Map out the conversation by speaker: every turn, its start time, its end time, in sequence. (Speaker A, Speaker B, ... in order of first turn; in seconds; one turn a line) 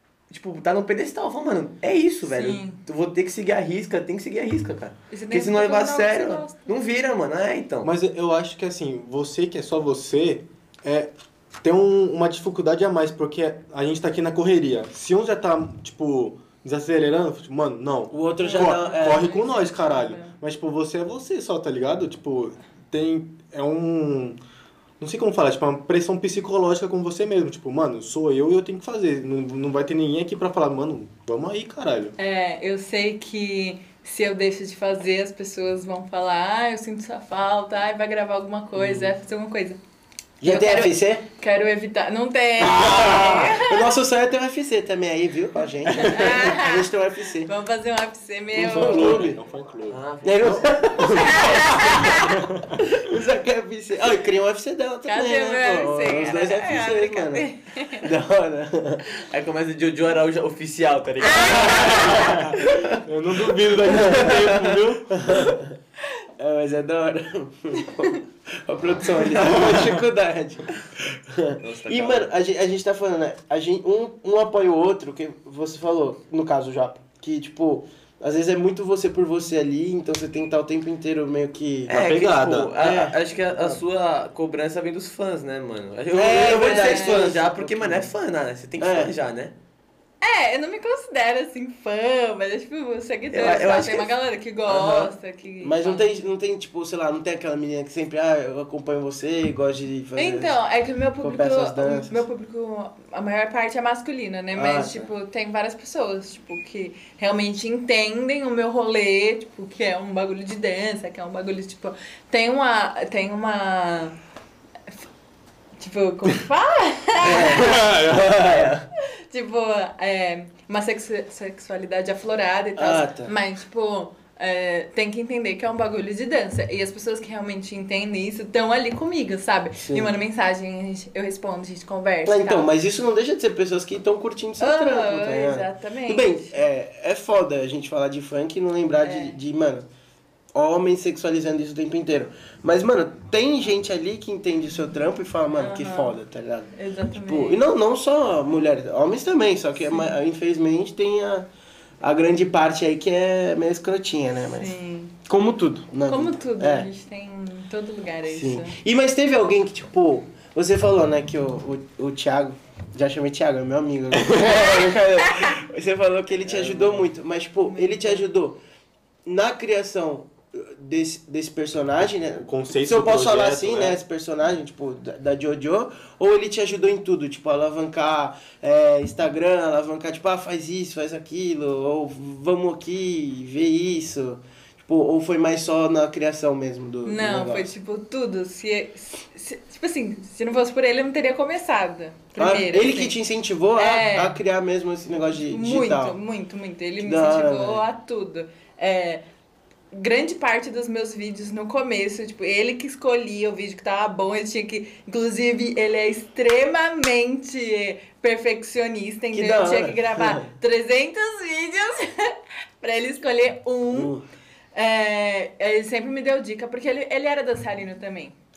Speaker A: 0.3-7.9
Speaker B: 2.2-2.8
Speaker B: 5.1-6.7
Speaker C: 7.8-11.1
Speaker C: 11.6-24.4
Speaker D: 18.1-19.3
Speaker B: 18.4-20.4
Speaker C: 25.0-32.1
Speaker B: 32.2-39.8
Speaker D: 40.4-41.2
Speaker B: 40.5-43.9
Speaker D: 42.7-47.5
Speaker C: 43.0-43.3
Speaker B: 46.0-46.9
Speaker B: 47.5-49.2
Speaker D: 48.5-49.4
Speaker C: 48.7-52.8
Speaker A: 49.9-52.0
Speaker D: 50.2-51.9
Speaker B: 51.0-52.4
Speaker D: 52.9-57.5
Speaker B: 55.0-58.1
Speaker D: 58.0-59.0
Speaker A: 59.1-63.0
Speaker B: 61.2-62.4
Speaker C: 61.6-65.4
Speaker D: 63.9-64.6
Speaker A: 64.0-64.8
Speaker D: 65.1-65.7
Speaker D: 66.4-82.0
Speaker C: 69.4-70.0
Speaker A: 71.6-72.3
Speaker A: 81.9-89.5
Speaker C: 81.9-82.8
Speaker D: 82.8-83.8
Speaker D: 86.1-88.1
Speaker B: 86.4-87.3
Speaker D: 88.8-89.1
Speaker B: 90.2-96.1
Speaker A: 93.3-94.1
Speaker A: 94.7-95.1
Speaker D: 95.6-100.5
Speaker B: 100.2-114.2
Speaker D: 101.2-102.2
Speaker D: 104.5-105.1
Speaker B: 115.8-117.8
Speaker D: 117.2-118.9
Speaker C: 117.6-118.3
Speaker B: 119.3-132.7
Speaker D: 122.8-123.3
Speaker D: 129.8-130.1
Speaker D: 132.2-139.9
Speaker B: 134.6-136.6
Speaker B: 139.0-139.4
Speaker D: 140.5-146.7
Speaker B: 145.6-146.2
Speaker B: 146.7-147.6
Speaker D: 147.2-151.5
Speaker B: 149.9-150.2
Speaker D: 152.0-154.7
Speaker B: 154.5-155.2
Speaker D: 155.3-156.9
Speaker B: 156.1-158.8
Speaker D: 158.3-168.6
Speaker B: 164.4-164.8
Speaker A: 166.3-167.1
Speaker B: 167.6-168.3
Speaker D: 169.2-187.7
Speaker C: 172.4-174.0
Speaker B: 187.1-193.2
Speaker D: 192.4-196.2
Speaker B: 193.8-194.4
Speaker B: 195.5-199.2
Speaker D: 197.0-197.8
Speaker B: 199.9-214.1
Speaker D: 209.3-210.5
Speaker D: 213.9-214.2
Speaker B: 214.8-218.3